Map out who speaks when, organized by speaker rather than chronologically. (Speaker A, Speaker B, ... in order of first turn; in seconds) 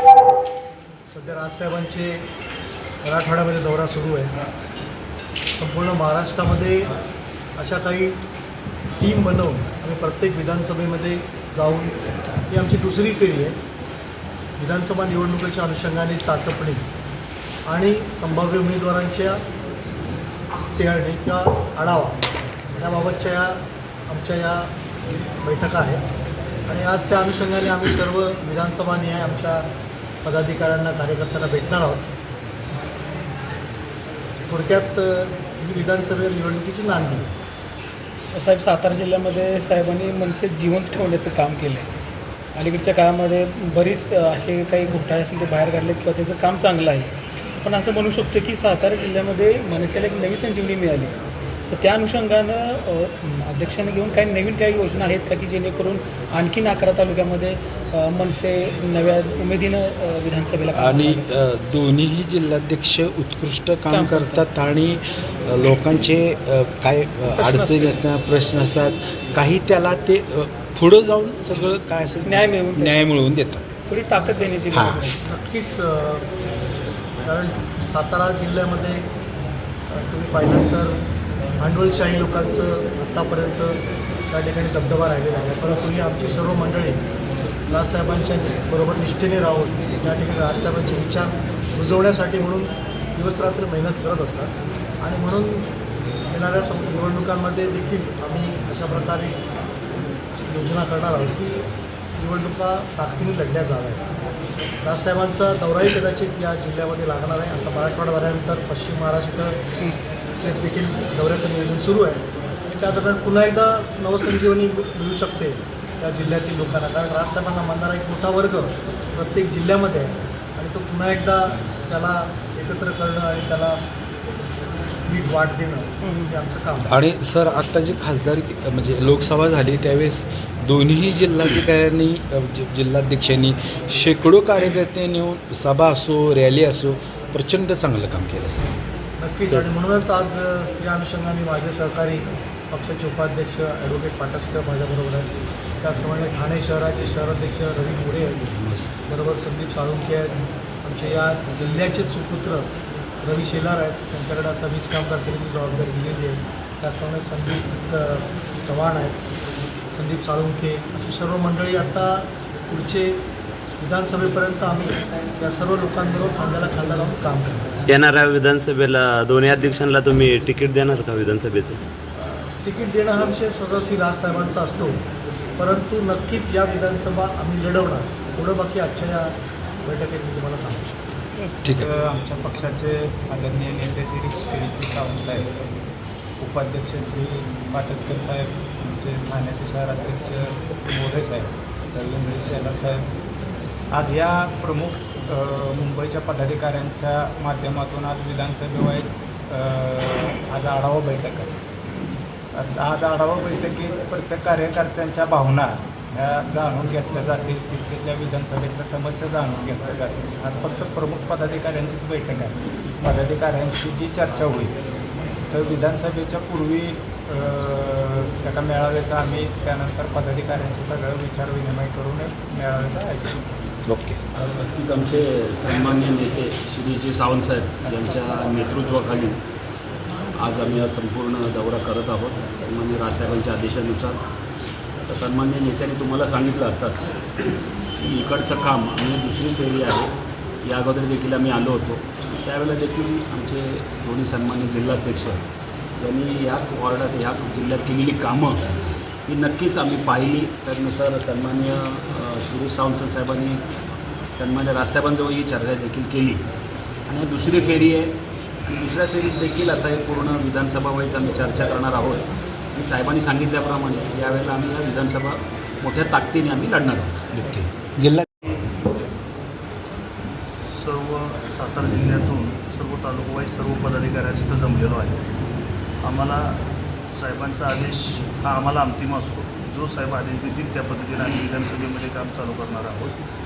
Speaker A: 1.1-2.3, 3.0-4.3, 5.5-6.9, 7.6-8.2, 9.0-13.6, 14.6-16.8, 17.6-19.4, 20.7-22.2, 22.7-24.7, 25.4-26.0, 26.7-29.6, 30.2-32.1, 34.4-37.3, 75.2-76.2, 77.2-79.0, 79.9-81.0, 81.6-87.0, 87.7-95.7, 96.2-99.4, 100.5-104.0, 104.8-109.6, 110.4-123.8, 125.0-126.9, 139.2-148.5, 149.0-152.7, 153.2-159.2, 159.9-163.2, 163.8-167.7, 172.2-175.0, 175.6-179.3, 179.8-181.0
Speaker B: 38.3-41.9, 42.5-51.1, 51.7-61.2, 63.9-64.4, 67.3-68.0, 72.2-73.1, 73.9-75.2, 126.0-126.3
Speaker C: 60.7-73.7, 74.7-75.1, 126.9-138.8, 148.5-148.9, 223.8-224.2, 267.3-268.2
Speaker D: 167.9-171.8
Speaker E: 181.7-185.5, 186.4-193.1, 193.9-201.5, 202.5-214.8, 215.5-223.5
Speaker F: 224.3-229.4, 230.4-234.2, 235.1-237.2, 238.0-240.1, 240.6-245.4, 246.0-248.7, 249.3-253.6, 254.3-256.4, 257.1-258.1, 258.6-267.2
Speaker G: 270.7-275.2, 276.0-283.1